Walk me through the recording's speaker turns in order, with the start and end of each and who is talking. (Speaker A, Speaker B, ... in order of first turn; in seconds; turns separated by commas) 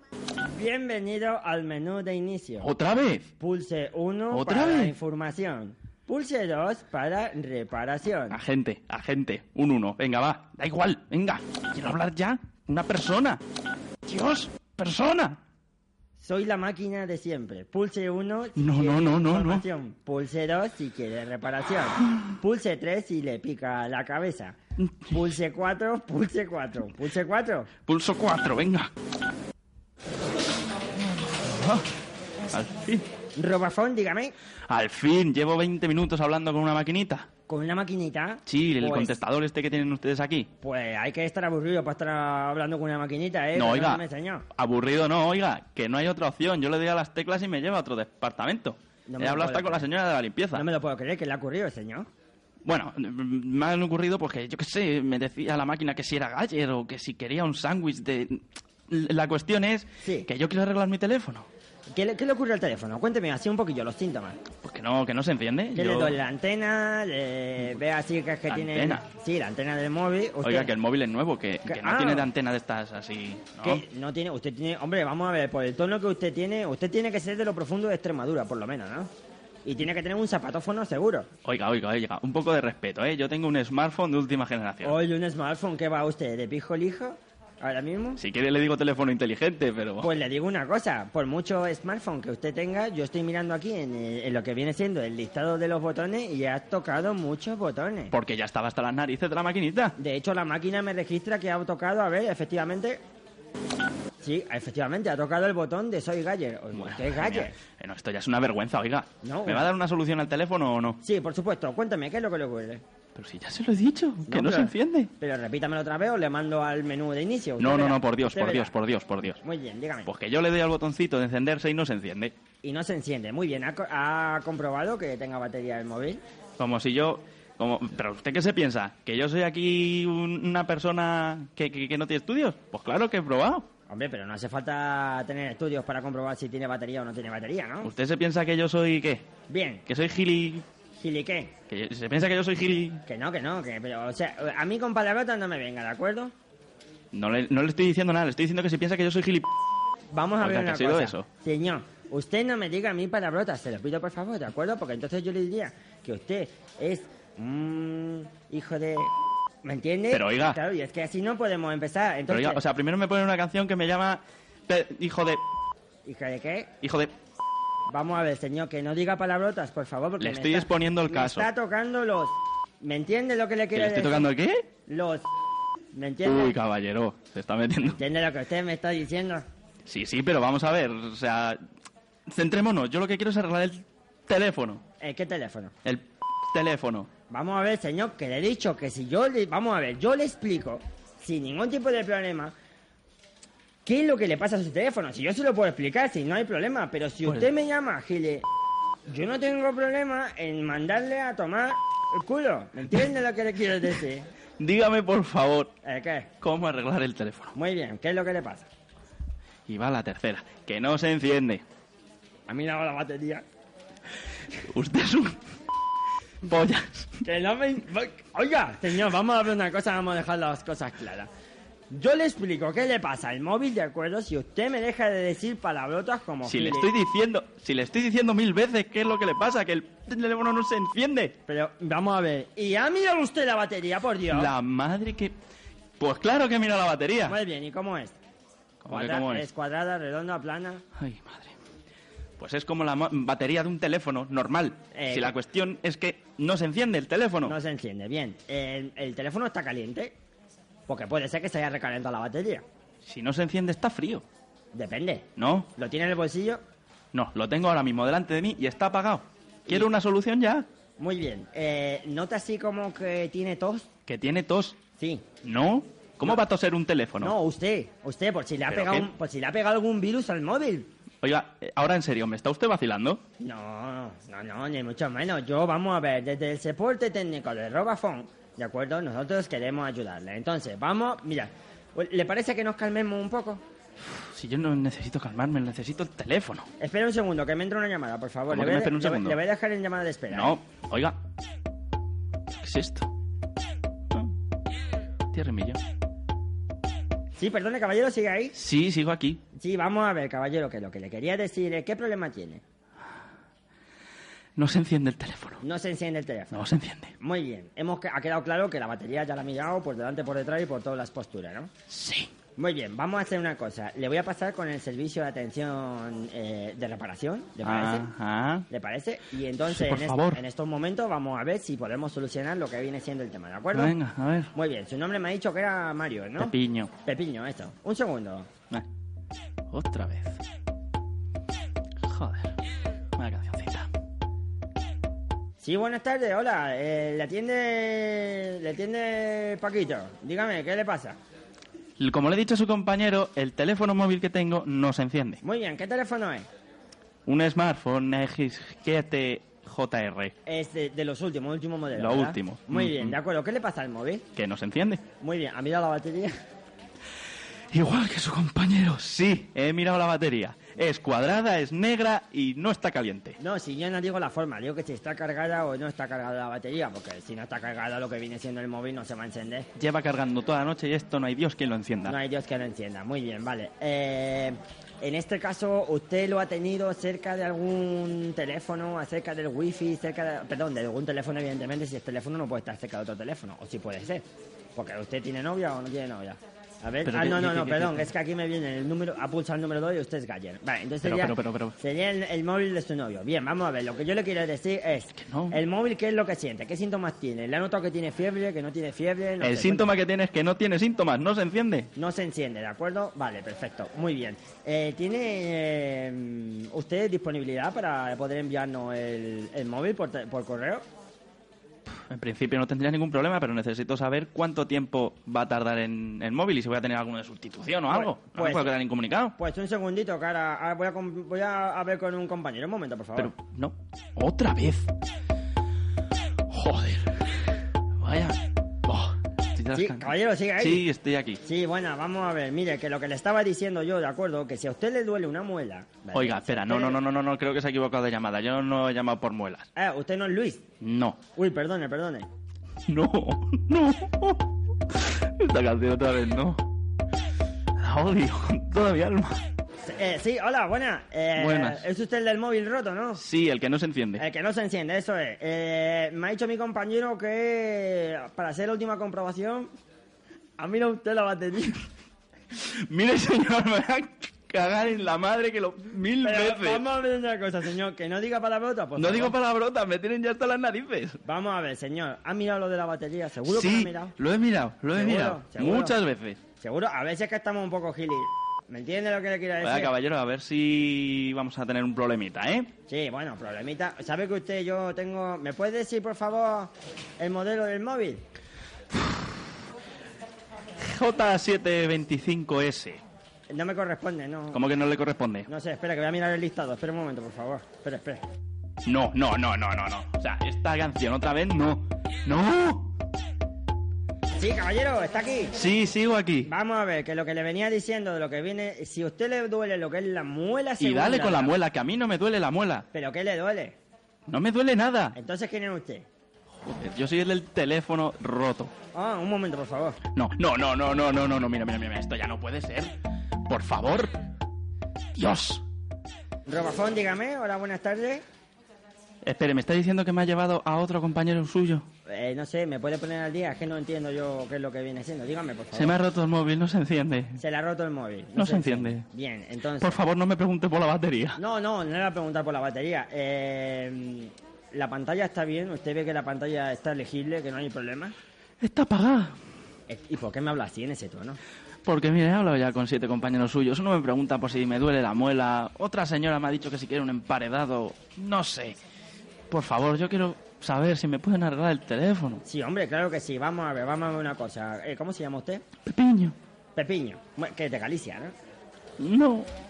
Speaker A: 0.5-2.7, Speaker B: 2.6-3.3, Speaker A: 3.4-8.4, Speaker B: 4.3-5.0, Speaker B: 8.3-13.4, Speaker B: 14.1-15.4, Speaker A: 16.2-24.6, Speaker B: 18.6-19.6, Speaker B: 24.8-25.1, Speaker A: 25.1-27.7, Speaker B: 27.9-28.9, Speaker B: 31.4-31.9, Speaker B: 32.5-33.1, Speaker A: 33.4-34.4, Speaker B: 34.7-37.3, Speaker A: 37.5-39.1, Speaker B: 38.5-40.5, Speaker A: 40.6-44.5, Speaker B: 43.5-44.0, Speaker B: 44.5-50.7, Speaker A: 49.1-49.9, Speaker A: 50.5-52.1, Speaker B: 52.6-61.5, Speaker A: 60.0-60.3, Speaker A: 61.9-64.4, Speaker B: 64.6-66.2, Speaker A: 65.7-70.7, Speaker B: 68.5-69.0, Speaker B: 70.4-73.8, Speaker A: 71.7-72.3, Speaker A: 73.6-79.1, Speaker A: 79.7-81.3, Speaker B: 81.4-85.0, Speaker A: 84.8-88.2, Speaker B: 88.2-90.1, Speaker A: 90.0-98.1, Speaker B: 98.1-100.0, Speaker A: 100.0-103.0, Speaker A: 104.2-107.6, Speaker B: 106.7-111.0, Speaker A: 109.2-109.7, Speaker A: 111.0-112.8, Speaker B: 113.2-115.1, Speaker A: 114.3-118.8, Speaker B: 117.6-119.4, Speaker A: 119.4-120.1, Speaker B: 120.1-122.3, Speaker A: 122.6-126.2, Speaker B: 126.6-133.7, Speaker A: 133.9-137.9, Speaker B: 137.8-139.2, Speaker A: 139.5-139.9, Speaker B: 139.9-140.7, Speaker A: 141.0-141.5, Speaker B: 141.7-143.0, Speaker A: 143.1-146.3, Speaker B: 147.1-149.5, Speaker A: 150.1-162.6, Speaker B: 150.4-151.3, Speaker B: 160.1-160.6, Speaker B: 162.3-165.4, Speaker A: 166.1-166.7, Speaker B: 166.8-167.1, Speaker A: 167.9-174.3, Speaker B: 170.2-171.5, Speaker B: 173.7-174.7, Speaker A: 174.9-175.3, Speaker A: 175.9-176.6, Speaker B: 176.2-178.0, Speaker A: 177.8-179.5, Speaker B: 179.8-181.6, Speaker B: 182.3-184.8, Speaker A: 185.0-185.8, Speaker B: 185.8-187.1, Speaker A: 187.3-192.5, Speaker A: 193.8-198.5, Speaker A: 199.1-204.3, Speaker B: 204.6-205.7, Speaker A: 205.8-206.3, Speaker B: 206.4-207.6, Speaker A: 207.6-208.7, Speaker B: 209.7-211.6, Speaker A: 212.5-213.4, Speaker B: 214.7-215.4, Speaker B: 216.4-217.2, Speaker A: 217.2-221.3, Speaker A: 221.9-226.9, Speaker B: 226.4-231.4, Speaker A: 231.5-234.5, Speaker B: 234.3-235.3, Speaker B: 236.0-237.4, Speaker A: 237.2-238.2, Speaker B: 238.8-239.5, Speaker A: 238.9-240.8, Speaker B: 241.0-241.5, Speaker B: 242.4-247.6, Speaker A: 244.9-245.4, Speaker A: 247.4-250.2, Speaker A: 250.9-252.6, Speaker B: 253.0-254.2, Speaker A: 254.7-256.6, Speaker B: 255.4-255.7, Speaker B: 257.1-260.7, Speaker A: 261.0-263.9, Speaker B: 264.1-264.8, Speaker A: 265.0-265.3, Speaker B: 265.4-267.3, Speaker A: 267.2-270.9, Speaker B: 268.7-269.1, Speaker B: 271.2-273.2, Speaker A: 273.4-283.6, Speaker B: 284.1-286.7, Speaker A: 286.8-290.6, Speaker B: 288.5-289.4, Speaker B: 290.3-291.2, Speaker B: 292.5-293.1, Speaker B: 295.3-295.8, Speaker A: 297.4-298.6, Speaker B: 298.6-299.4, Speaker A: 299.6-302.6, Speaker B: 304.6-305.6, Speaker A: 305.6-306.6, Speaker B: 306.5-307.1, Speaker A: 307.2-311.7, Speaker B: 311.9-312.3, Speaker A: 312.6-318.1, Speaker B: 317.6-318.7, Speaker A: 318.7-324.0, Speaker B: 319.7-320.4, Speaker B: 323.7-324.5, Speaker A: 324.5-328.5, Speaker B: 326.4-326.9, Speaker B: 329.7-330.4, Speaker B: 332.1-332.6, Speaker B: 333.2-333.9, Speaker A: 335.6-341.2, Speaker B: 342.0-345.4, Speaker A: 345.4-346.5, Speaker B: 347.3-350.3, Speaker A: 350.5-354.2, Speaker B: 351.9-353.2, Speaker B: 354.4-355.0, Speaker A: 355.2-356.3, Speaker B: 357.7-363.4, Speaker A: 363.4-369.7, Speaker B: 369.8-372.2, Speaker A: 372.1-384.2, Speaker A: 384.8-399.9, Speaker B: 387.1-388.1, Speaker B: 391.0-391.8, Speaker B: 395.2-395.6, Speaker B: 399.4-401.9, Speaker A: 401.9-410.8, Speaker B: 412.0-419.4, Speaker A: 417.9-418.8, Speaker A: 419.4-423.3, Speaker B: 423.2-424.9, Speaker B: 426.5-427.3, Speaker B: 428.0-431.4, Speaker A: 429.7-430.9, Speaker A: 431.4-437.0, Speaker B: 436.1-439.7, Speaker A: 439.8-440.6, Speaker B: 440.8-441.2, Speaker A: 441.3-442.3, Speaker B: 442.9-446.6, Speaker B: 447.8-449.4, Speaker A: 449.8-453.2, Speaker B: 451.4-451.9, Speaker B: 453.2-454.2, Speaker A: 454.2-459.7, Speaker A: 460.6-461.9, Speaker B: 462.5-466.9, Speaker A: 466.2-469.4, Speaker B: 469.0-471.2, Speaker A: 471.2-474.1, Speaker B: 473.4-476.4, Speaker A: 474.9-476.0, Speaker A: 476.6-479.9, Speaker B: 479.6-482.7, Speaker A: 482.9-488.2, Speaker B: 490.8-493.0, Speaker A: 493.5-494.6, Speaker B: 494.5-495.5, Speaker A: 495.5-498.2, Speaker B: 498.9-502.9, Speaker A: 504.4-505.5, Speaker B: 505.5-506.5, Speaker A: 506.4-511.6, Speaker B: 510.8-512.9, Speaker A: 512.9-513.8, Speaker B: 514.3-515.2, Speaker A: 515.1-516.1, Speaker B: 516.7-518.7, Speaker A: 518.9-520.0, Speaker B: 520.1-524.2, Speaker B: 525.1-525.6, Speaker A: 526.5-528.2, Speaker B: 529.2-531.9, Speaker A: 532.1-536.0, Speaker B: 535.7-537.4, Speaker A: 537.4-540.0, Speaker B: 538.4-539.0, Speaker B: 539.8-541.4, Speaker A: 541.4-548.1, Speaker B: 548.6-549.4, Speaker A: 549.9-551.4, Speaker B: 551.9-558.8, Speaker B: 559.5-562.4, Speaker A: 562.4-565.7, Speaker B: 565.9-566.4, Speaker A: 566.8-568.3, Speaker B: 569.0-569.5